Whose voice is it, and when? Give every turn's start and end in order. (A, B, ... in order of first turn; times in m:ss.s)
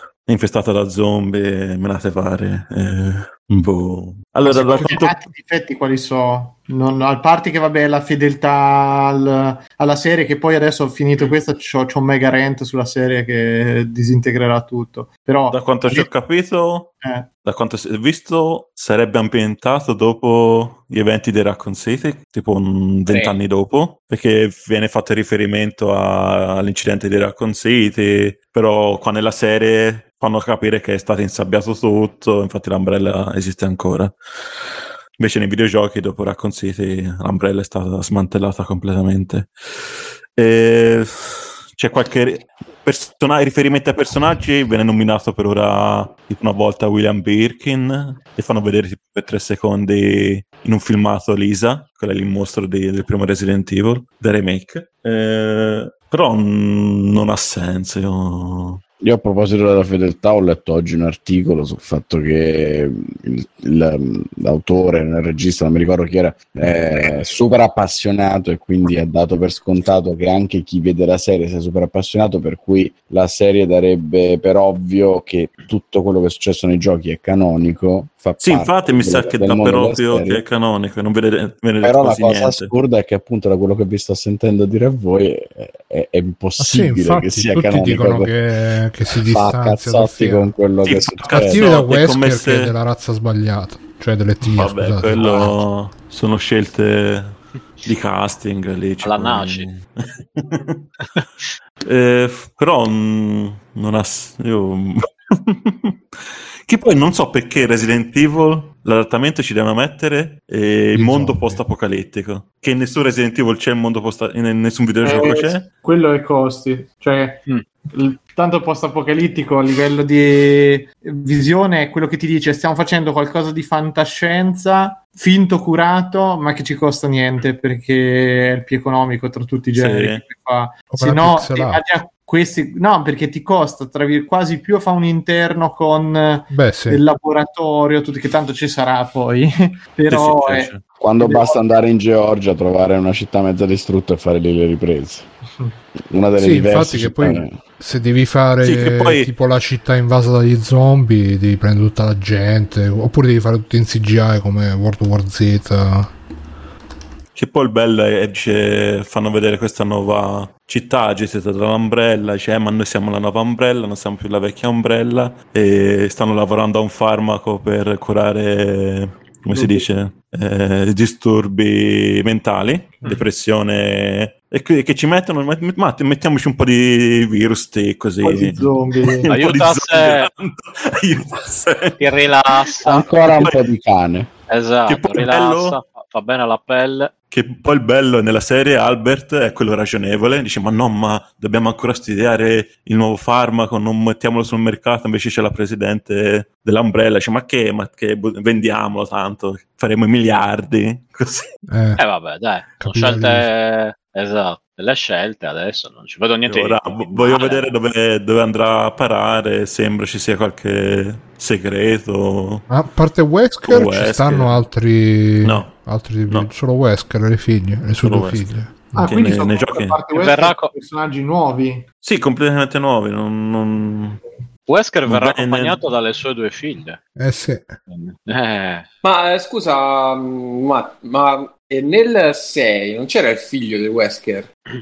0:00.3-0:05.2 A
0:04.4-0:16.1 B
0:15.5-0:16.9 A
0:17.0-0:17.3 B
0:17.4-0:34.1 A
0:23.1-0:23.4 C
0:35.2-0:39.5 A
0:40.4-0:58.8 A
0:59.0-1:20.4 D
1:18.4-1:22.7 A
1:21.8-1:28.3 D
1:26.6-1:30.5 E
1:29.2-1:31.7 D
1:30.8-1:32.7 A
1:31.3-1:35.5 E
1:34.4-1:39.8 A
1:39.0-1:39.7 F
1:40.4-1:40.8 A
1:41.9-1:46.0 A
1:46.7-1:55.7 A
1:51.0-1:51.6 E
1:55.0-2:21.6 B
2:09.8-2:10.2 A
2:10.9-2:11.8 E
2:16.5-2:17.0 E
2:20.1-2:20.9 A
2:20.9-2:25.3 D
2:26.1-2:27.6 D
2:26.4-2:36.1 E
2:28.6-2:29.3 A
2:37.4-3:03.7 A
2:49.5-2:49.9 B
2:58.2-2:59.3 B
2:59.3-3:00.3 F
3:02.0-3:03.5 F
3:02.8-3:04.3 D
3:04.5-3:07.1 F
3:04.9-3:05.8 A
3:07.3-3:21.5 A
3:21.7-3:22.0 E
3:22.0-3:27.6 F
3:22.8-3:23.5 E
3:26.5-3:32.7 A
3:32.7-3:39.1 E
3:33.7-3:34.6 A
3:35.4-3:35.7 A
3:38.0-3:38.5 A
3:39.0-3:41.9 B
3:39.0-3:40.0 A
3:40.1-3:40.7 F
3:42.0-3:44.2 A
3:44.7-3:47.0 F
3:45.1-3:45.8 A
3:47.2-3:47.7 E
3:47.9-3:48.8 F
3:49.0-3:54.5 C